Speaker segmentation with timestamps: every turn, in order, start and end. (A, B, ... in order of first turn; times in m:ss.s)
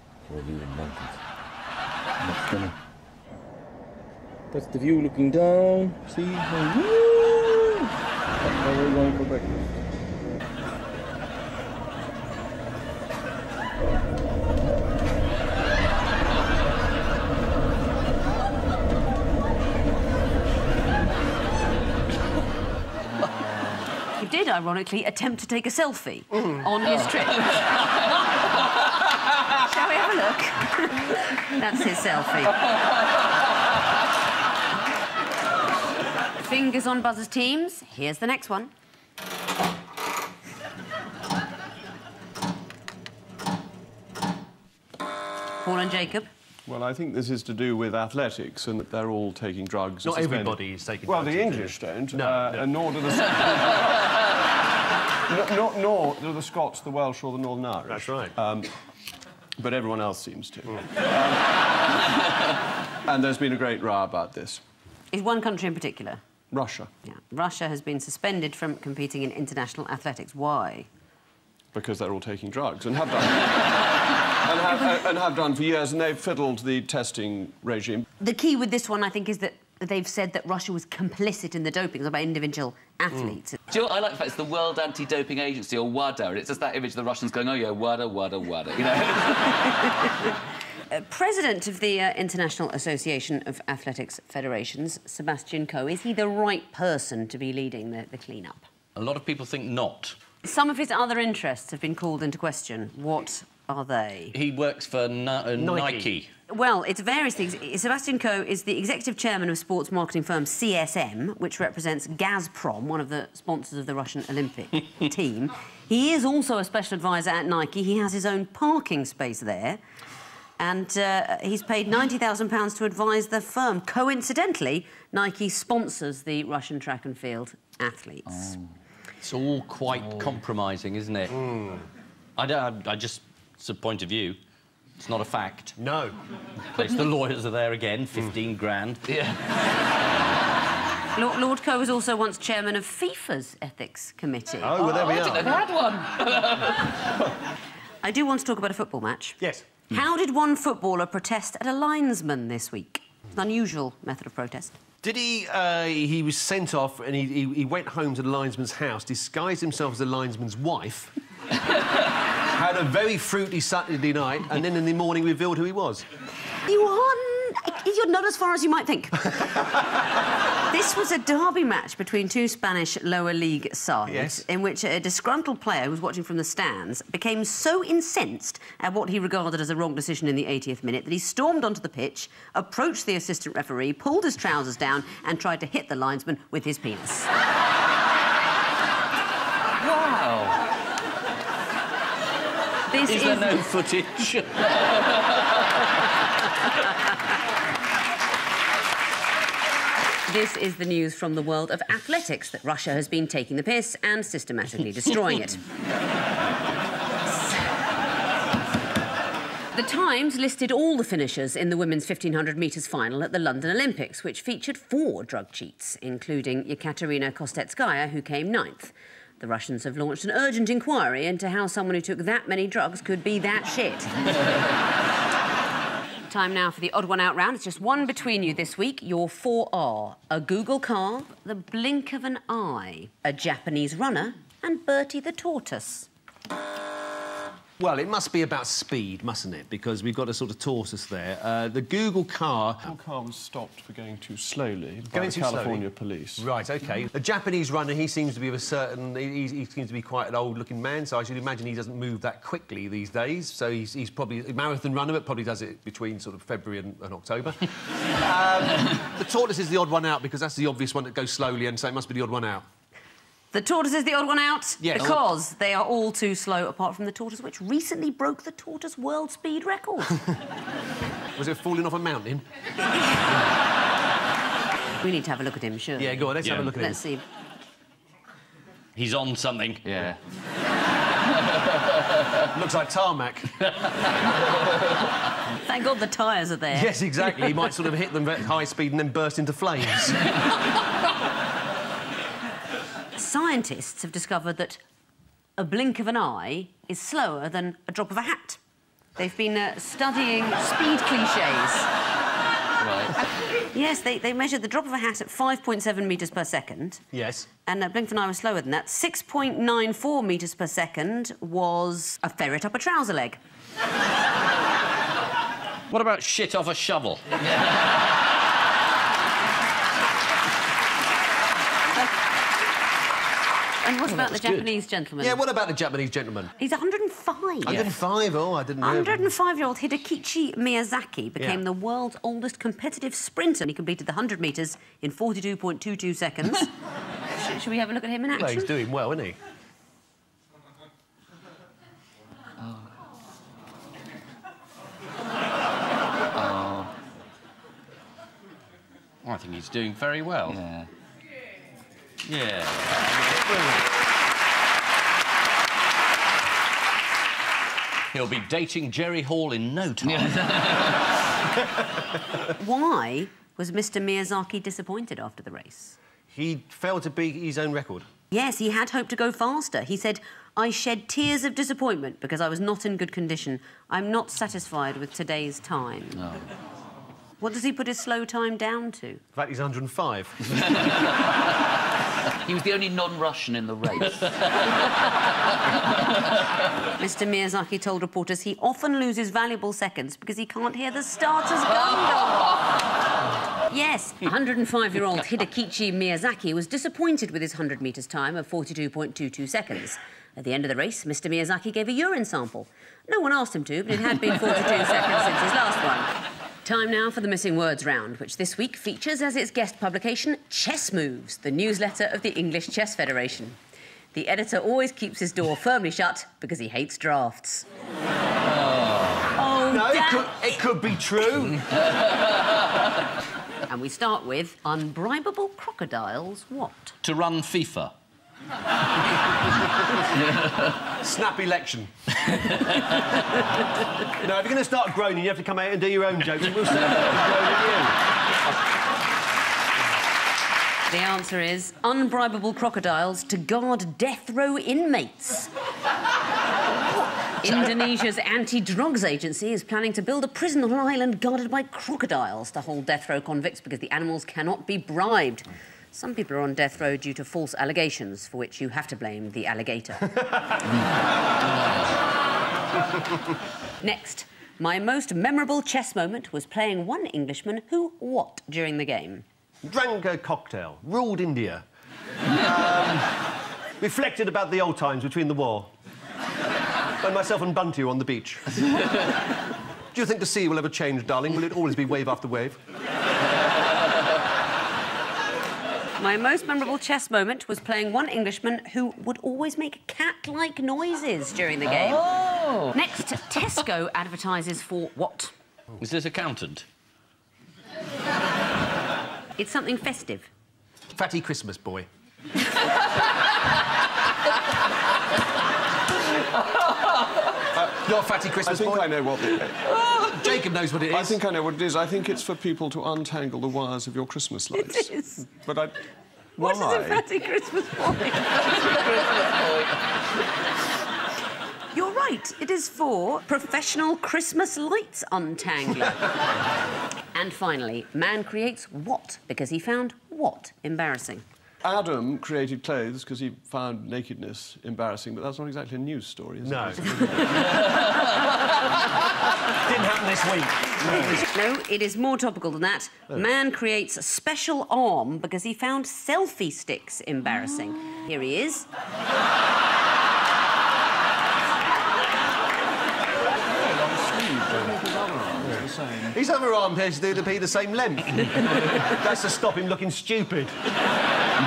0:00.2-0:01.2 A
0:02.2-0:02.8 A
0:04.5-0:07.9 A
0:08.4-0:09.7 A
0:24.2-0:27.7 B
0:29.6-0:32.6 B
0:36.4-0:38.7 B
0:45.6-0:46.3 B
0:46.7-0:54.1 C
0:50.0-0:52.6 D
0:55.3-0:58.7 C
0:57.9-0:58.4 D
0:59.6-1:01.6 C
1:03.1-1:04.6 C
1:05.1-1:06.2 B
1:06.5-1:06.9 C
1:07.0-1:10.9 B
1:11.7-1:13.9 C
1:14.4-1:18.1 C
1:18.2-1:23.6 B
1:23.7-1:29.9 E
1:30.9-1:38.6 B
1:38.9-1:40.2 F
1:40.4-1:44.4 B
1:44.3-1:46.3 F
1:45.6-1:46.1 D
1:46.5-1:59.8 B
2:00.6-2:08.5 B
2:08.3-2:08.7 E
2:09.2-2:11.5 F
2:12.4-2:14.4 F
2:15.0-2:15.8 F
2:15.8-2:16.2 D
2:16.8-2:19.0 F
2:16.8-2:17.1 E
2:19.1-2:19.4 E
2:21.2-2:25.1 B
2:24.6-2:25.6 D
2:24.8-2:27.0 E
2:28.0-2:34.8 B
2:35.0-2:41.1 D
2:42.5-2:46.0 D
2:46.7-2:49.3 B
2:50.7-3:07.3 B
2:54.1-2:54.4 D
3:09.8-3:10.6 E
3:12.9-3:13.7 B
3:13.1-3:14.6 F
3:20.3-3:25.6 B
3:29.7-3:44.2 B
3:46.3-3:56.1 B
3:57.8-4:02.9 D
4:02.8-4:06.5 C
4:05.1-4:05.8 D
4:06.4-4:22.6 D
4:23.5-4:30.2 B
4:24.8-4:25.2 D
4:31.4-4:32.4 D
4:35.0-4:37.2 B
4:36.0-4:37.0 D
4:36.4-4:36.7 F
4:39.0-4:39.8 F
4:39.9-4:40.2 E
4:42.5-4:43.5 D
4:45.6-4:46.9 B
4:46.7-4:50.3 D
4:53.2-4:54.8 B
4:55.6-4:58.6 B
4:59.2-5:01.9 B
5:02.8-5:03.1 E
5:03.7-5:07.0 B
5:07.1-5:07.5 D
5:07.6-5:13.4 B
5:15.9-5:17.3 F
5:23.8-5:25.4 B
5:24.1-5:24.6 D
5:25.2-5:26.5 D
5:26.6-5:27.9 B
5:27.6-5:29.3 D
5:28.8-5:36.7 B
5:37.3-5:38.8 B
5:38.4-5:39.4 D
5:42.6-5:42.9 E
5:46.4-5:46.9 E
5:49.2-5:50.6 F
5:50.5-5:50.9 E
5:52.2-5:53.4 F
5:58.1-6:00.6 F
6:00.1-6:00.9 E
6:02.6-6:06.0 B
6:06.3-6:08.1 D
6:08.3-6:16.2 B
6:16.2-6:16.4 E
6:17.4-6:19.2 B
6:19.3-6:20.4 D
6:22.4-6:24.3 E
6:27.0-6:32.6 B
6:33.7-6:46.1 B
6:46.6-6:53.6 B
6:54.1-6:57.6 B
6:59.4-7:00.5 B
6:59.6-7:01.6 D
7:03.7-7:06.9 B
7:07.0-7:07.9 F
7:11.0-7:11.9 D
7:14.2-7:18.0 D
7:20.9-7:25.5 B
7:27.4-7:40.1 B
7:43.8-7:49.2 B
7:49.6-7:51.6 D
7:52.3-7:53.3 D
7:53.8-7:55.7 D
7:57.0-7:58.6 D
7:59.9-8:02.6 D
8:06.0-8:12.1 B
8:11.7-8:12.7 E
8:12.7-8:15.3 B
8:15.8-8:16.6 F
8:19.4-8:20.3 B
8:20.9-8:21.9 D
8:27.5-8:29.7 C
8:27.8-8:28.9 D
8:30.0-8:31.2 D
8:30.9-8:35.8 C
8:34.6-8:35.2 B
8:36.4-8:37.1 C
8:36.4-8:38.6 B
8:38.6-8:39.8 E
8:41.7-8:46.1 B
8:47.1-8:51.2 B
8:51.6-8:57.5 C
8:56.4-8:57.5 D
8:59.5-9:01.2 D
9:00.9-9:01.1 C
9:01.2-9:08.7 B
9:13.4-9:16.2 C
9:16.1-9:20.6 D